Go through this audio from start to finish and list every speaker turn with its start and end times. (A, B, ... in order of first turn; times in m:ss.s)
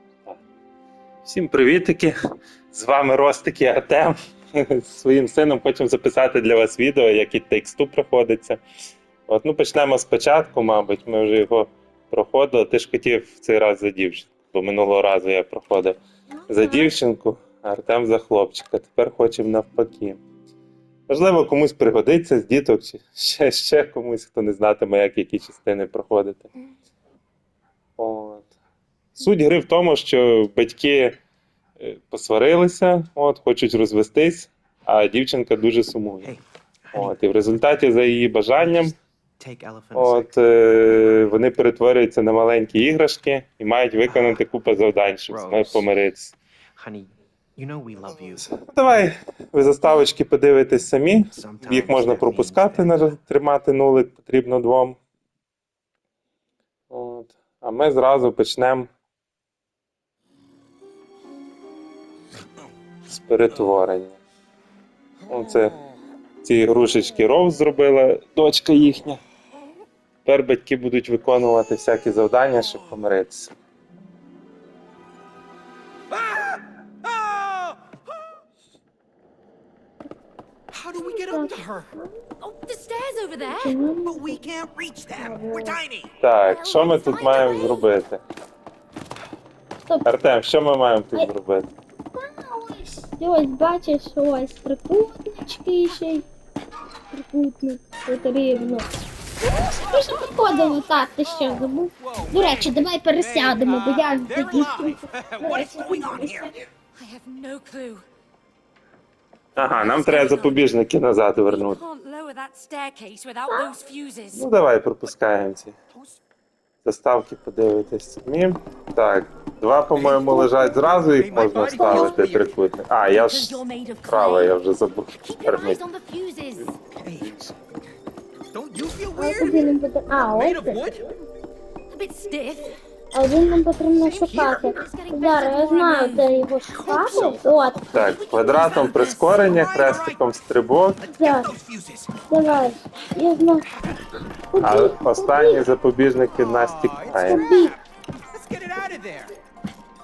0:01.2-0:02.2 A
0:02.7-0:08.6 A
0:09.3-0:20.2 A
0:16.3-0:16.9 B
0:21.1-0:26.5 A
0:28.0-0:28.5 A
0:29.2-0:31.2 A
0:31.8-0:36.3 A
0:36.2-0:37.2 C
0:36.9-0:39.0 A
0:39.4-0:41.2 C
0:40.0-0:46.3 A
0:44.1-0:44.4 C
0:45.3-0:45.9 C
0:46.8-0:48.5 C
0:48.5-0:55.0 A
0:51.3-0:53.0 C
0:56.9-0:58.9 A
1:03.1-1:04.2 A
1:05.3-1:05.8 A
1:06.4-1:09.2 A
1:10.2-1:13.5 A
1:16.1-1:18.0 C
1:20.7-1:21.9 C
1:21.0-1:22.1 B
1:22.4-1:23.7 D
1:23.4-1:24.4 B
1:24.0-1:26.1 C
1:25.2-1:25.8 B
1:26.2-1:28.2 A
1:26.5-1:27.8 D
1:30.0-1:31.7 A
1:32.2-1:36.3 B
1:37.1-1:38.9 B
1:39.6-1:46.6 B
1:42.0-1:46.5 C
1:47.0-1:48.0 D
1:49.6-1:51.8 A
1:49.8-1:50.7 D
1:51.5-1:54.4 D
1:53.5-1:53.8 B
1:54.3-1:55.8 A
1:55.9-1:56.2 C
1:56.8-2:05.8 A
2:00.0-2:00.4 C
2:00.4-2:00.9 B
2:01.2-2:02.5 C
2:03.1-2:04.6 D
2:05.2-2:06.8 D
2:06.6-2:07.6 A
2:06.9-2:07.3 C
2:08.5-2:11.0 C
2:09.2-2:10.9 B
2:11.9-2:12.8 D
2:13.1-2:17.8 B
2:14.0-2:16.5 D
2:16.7-2:18.2 C
2:17.9-2:21.0 A
2:17.9-2:19.2 D
2:19.4-2:20.2 C
2:21.0-2:22.1 C
2:21.1-2:21.5 B
2:22.3-2:23.7 B
2:24.5-2:25.6 B
2:24.6-2:27.5 A
2:26.4-2:27.7 C
2:27.2-2:27.8 B
2:28.3-2:29.4 C